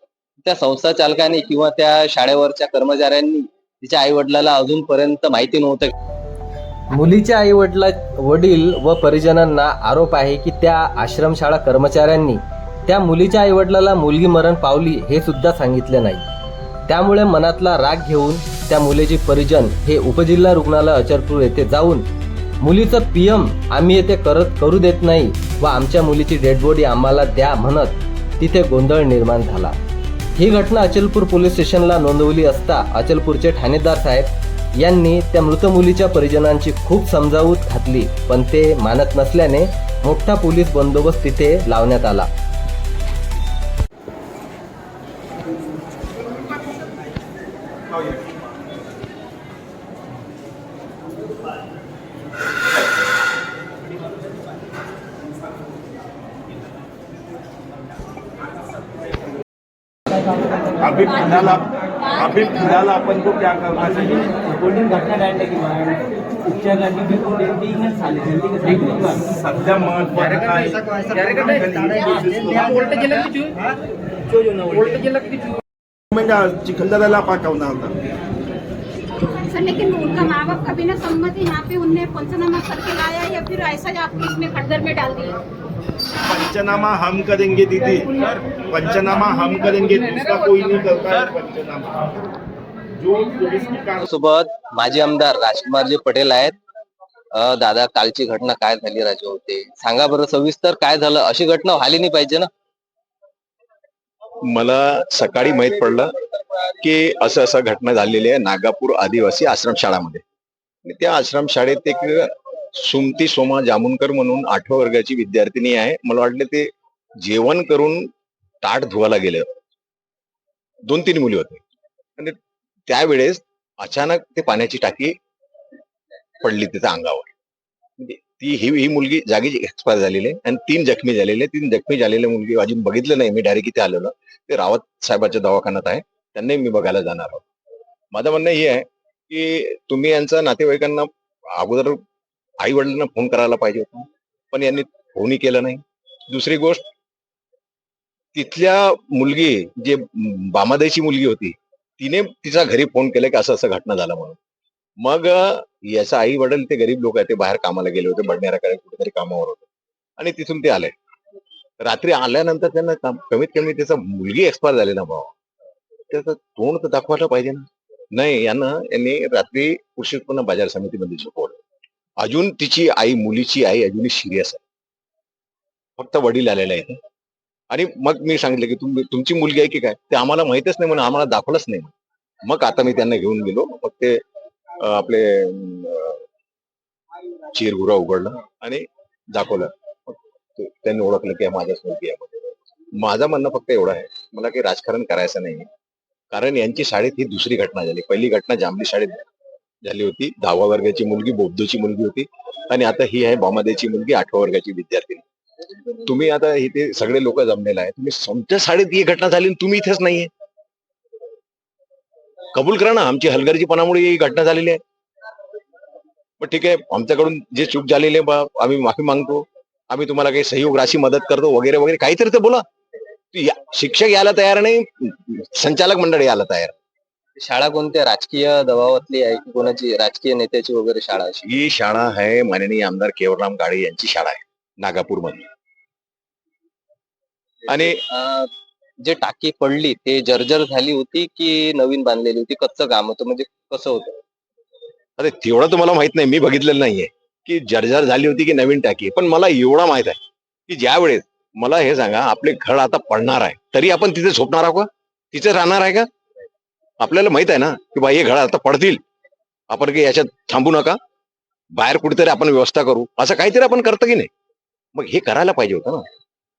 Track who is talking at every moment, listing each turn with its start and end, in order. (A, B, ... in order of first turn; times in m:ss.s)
0:00.4-0:05.9 A
0:06.9-0:16.2 A
0:16.9-0:22.0 A
0:22.6-0:29.7 A
0:30.4-0:42.3 A
1:00.8-1:04.5 B
1:07.1-1:08.9 A
1:09.1-1:13.3 B
1:16.1-1:17.9 B
1:20.1-1:25.3 C
1:26.2-1:28.1 B
1:28.7-1:32.1 B
1:33.0-1:34.0 B
1:34.1-1:36.5 A
1:37.4-1:42.5 A
1:44.5-1:46.1 D
1:46.8-1:50.2 D
1:50.8-1:56.7 D
1:57.2-1:58.1 D
1:58.6-1:59.5 D
2:00.9-2:01.6 D
2:02.9-2:05.1 D
2:06.4-2:07.3 D
2:08.0-2:17.4 D
2:18.1-2:22.0 D
2:22.6-2:26.8 D
2:28.3-2:34.4 D
2:35.0-2:39.6 D
2:40.2-2:40.9 D
2:41.8-2:45.3 D
2:46.1-2:51.6 D
2:52.2-2:54.6 D
2:56.0-2:57.0 D
2:57.7-3:01.9 D
3:02.4-3:04.2 D
3:04.8-3:06.2 D
3:07.5-3:15.7 D
3:16.3-3:19.2 D
3:19.8-3:25.2 D
3:26.0-3:30.3 D
3:32.5-3:34.8 D
3:36.4-3:42.6 D
3:43.3-3:46.7 D
3:47.4-3:51.4 A
3:51.4-3:55.5 D
3:57.7-3:58.0 D
3:58.1-3:58.4 A
3:59.0-4:04.2 A
4:05.2-4:16.1 D
4:17.0-4:19.0 D
4:19.7-4:21.0 D
4:21.8-4:24.3 D
4:24.9-4:26.0 D